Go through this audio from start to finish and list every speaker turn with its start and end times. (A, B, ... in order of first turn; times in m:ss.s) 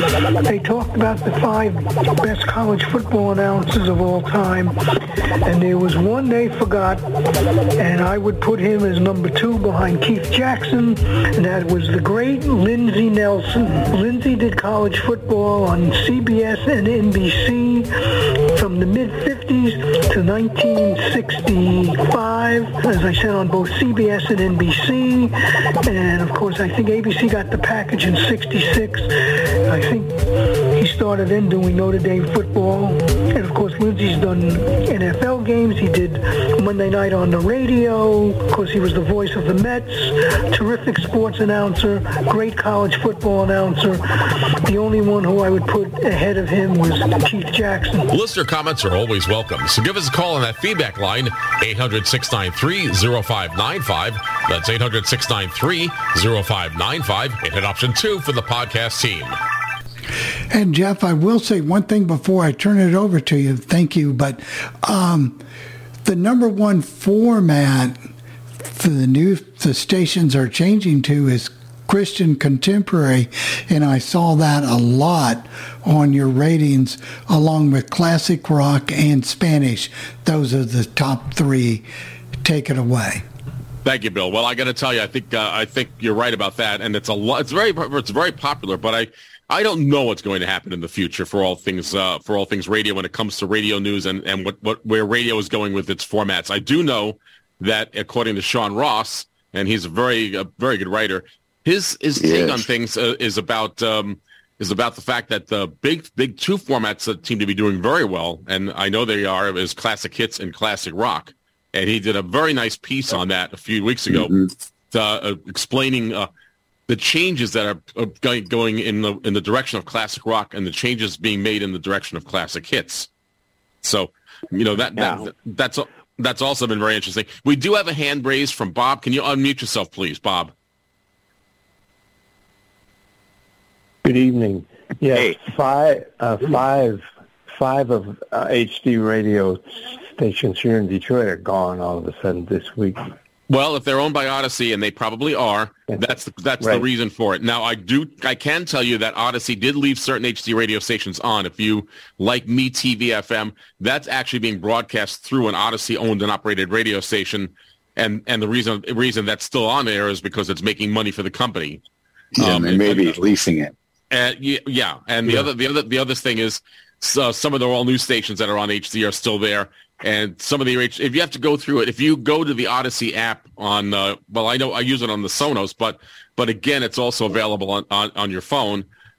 0:00.4-0:04.8 A
0:05.4-0:07.0 A
0:07.8-0:17.9 A
0:18.5-0:25.3 A
0:25.8-0:29.1 A
0:29.7-0:30.1 A
0:30.8-0:44.0 A
0:44.6-0:48.1 A
0:48.1-0:59.4 B
1:00.5-1:05.4 C
1:06.0-1:08.1 C
1:08.7-1:21.9 C
1:22.4-1:23.2 C
1:23.8-1:54.3 B
1:42.2-1:42.7 D
1:54.1-1:54.5 D
1:54.9-1:56.3 B
1:56.9-2:03.1 B
2:03.8-2:10.5 B
2:14.0-2:23.1 E
2:23.5-2:41.8 B
2:26.6-2:26.8 E
2:42.4-2:43.7 D
2:42.4-2:43.2 B
2:44.1-2:58.8 B